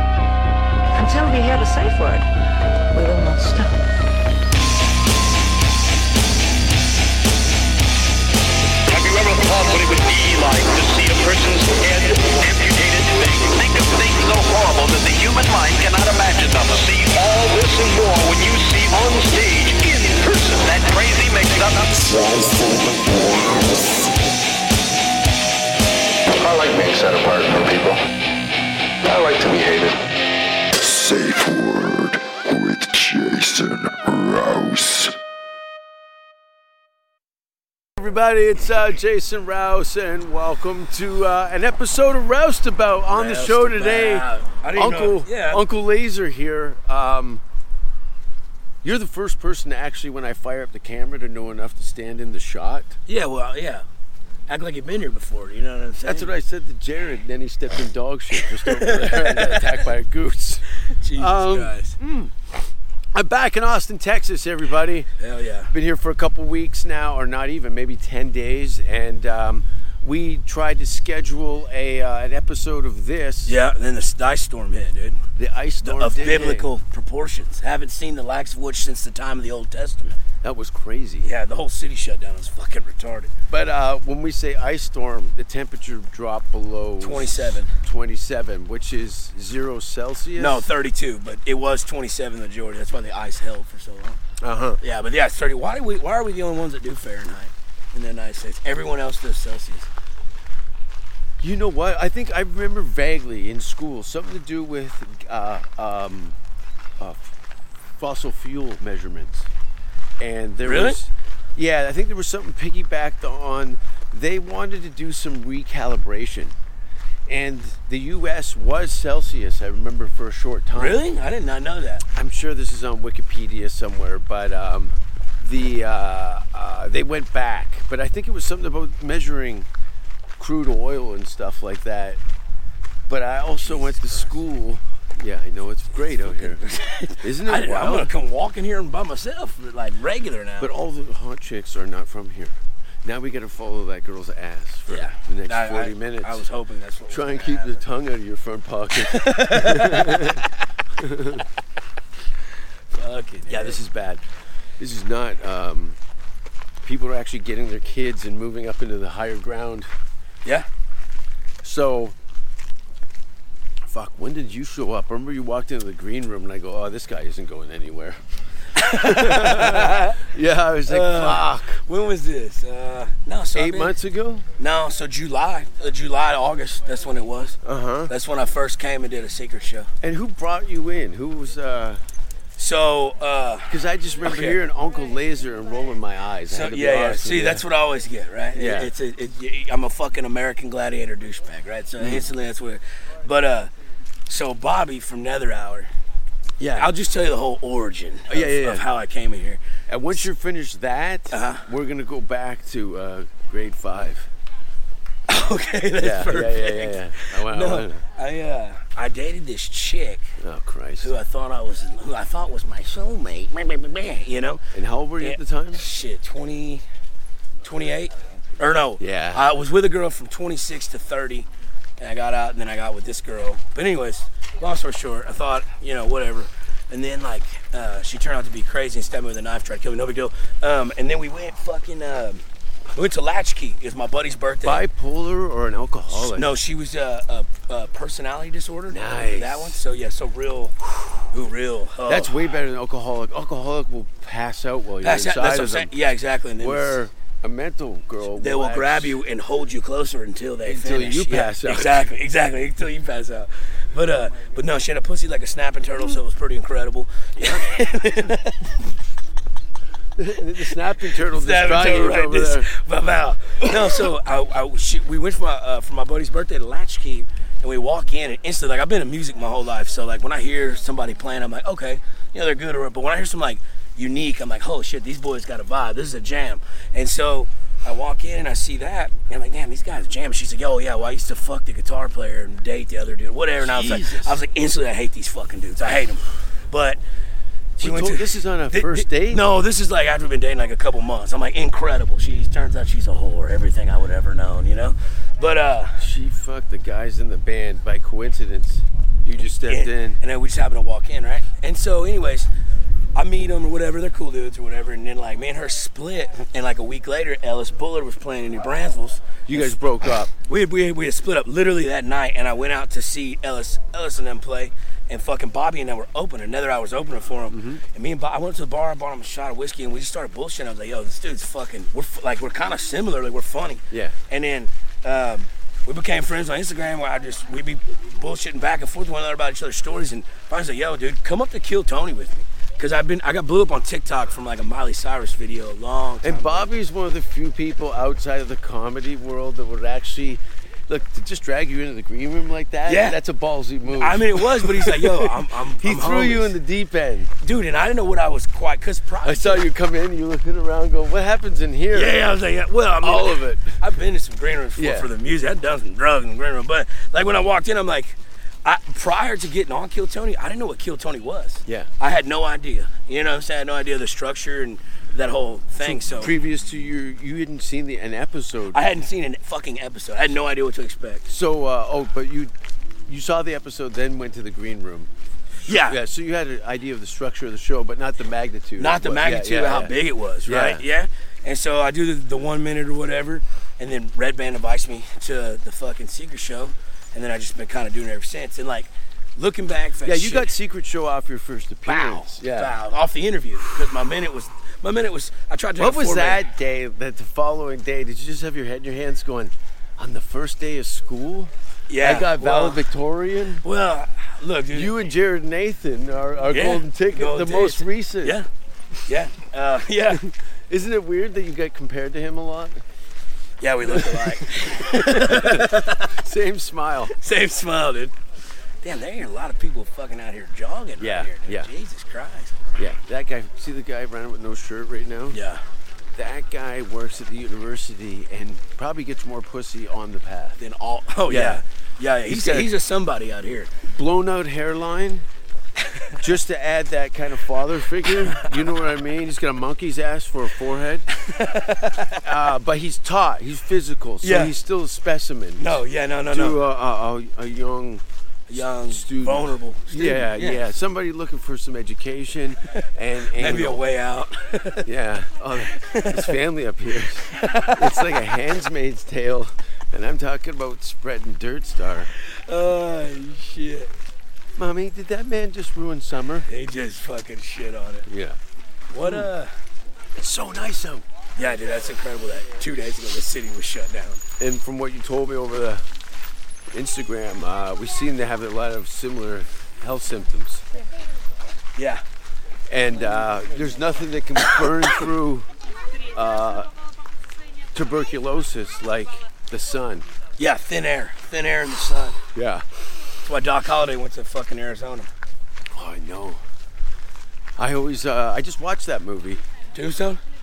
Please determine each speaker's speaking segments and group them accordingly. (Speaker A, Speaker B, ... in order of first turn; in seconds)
Speaker A: 0.9-2.3, 2.9-3.8
Speaker B: 8.9-22.2
Speaker C: 23.2-23.6, 30.8-35.2
Speaker D: 26.4-28.1, 29.1-30.0
Speaker E: 38.0-47.4, 48.8-53.0, 56.0-62.3, 63.1-65.1, 65.7-73.5, 75.4-76.7, 80.4-81.3, 83.5-90.7, 94.4-94.8, 101.4-106.4, 107.0-107.3, 108.0-109.5, 110.2-116.5, 117.3-121.0, 122.1-129.7, 130.4-132.2, 133.1-138.1, 140.6-146.4, 147.1-150.4, 151.0-151.4, 153.5-154.2, 154.8-156.0, 156.8-159.9, 161.6-162.2, 163.9-168.2, 168.8-171.8, 173.5-174.5, 177.6-178.1, 180.0-182.0, 183.7-187.7, 188.5-188.9, 192.0-192.2, 196.6-196.9, 198.3-198.8, 199.9-204.3, 206.0-208.0, 210.4-211.1, 214.7-215.8, 219.0-219.5, 234.6-236.6, 238.9-239.8, 242.1-245.9, 246.6-249.2, 250.6-252.1, 260.2-262.7, 283.6-284.4, 287.8-289.4, 296.0-300.2, 309.5-310.3, 317.5-317.8, 323.9-324.2, 336.2-347.3, 349.2-352.2, 353.0-353.8, 354.8-355.1, 365.8-368.9, 371.3-372.5, 373.1-375.1, 375.7-380.9, 390.1-392.8, 395.8-403.6, 404.7-408.4, 410.7-412.8, 413.9-417.1, 421.0-421.7, 422.8-425.4, 426.2-430.6, 431.3-431.6, 432.2-432.7, 433.9-435.3, 436.2-441.1, 442.2-453.9, 454.8-462.1, 464.6-466.5, 468.1-468.4, 469.0-469.3, 470.2-471.1, 474.4-475.8, 476.7-480.6, 482.7-485.5, 486.1-486.7, 487.7-490.1, 492.3-492.6, 495.7-496.4, 497.6-499.4
Speaker F: 43.1-45.6, 53.1-53.8, 54.5-56.3, 58.6-59.8, 60.8-62.0, 65.2-65.7, 73.5-75.2, 75.8-80.2, 81.2-83.3, 87.0-87.7, 90.4-94.2, 94.8-99.9, 110.7-111.0, 120.8-122.0, 133.6-134.3, 136.1-140.7, 144.9-147.8, 149.1-150.5, 152.9-153.8, 168.8-170.2, 170.9-174.0, 174.6-177.6, 178.1-179.9, 182.6-184.6, 186.5-193.7, 194.3-195.9, 196.7-199.6, 201.3-201.7, 205.3-210.3, 211.0-214.6, 215.2-216.8, 217.6-221.5, 222.0-232.4, 232.9-234.9, 236.1-240.8, 241.3-242.4, 245.0-247.0, 248.3-258.7, 261.2-287.0, 287.8-296.0, 299.7-302.5, 303.1-309.8, 310.3-336.7, 342.9-343.2, 343.9-346.6, 347.4-349.7, 351.9-366.3, 368.7-371.2, 375.6-376.0, 378.8-390.5, 391.9-396.4, 401.9-402.8, 403.6-404.9, 406.5-408.5, 409.1-410.2, 413.6-416.1, 417.1-418.1, 418.8-422.6, 425.3-425.6, 430.6-433.7, 441.1-442.2, 444.2-444.5, 445.6-446.6, 448.5-450.7, 453.4-454.9, 455.8-456.4, 457.3-458.1, 462.2-463.9, 466.5-468.1, 468.9-469.5, 471.4-474.2, 481.8-482.0, 490.4-492.2, 493.2-495.1, 499.7-500.2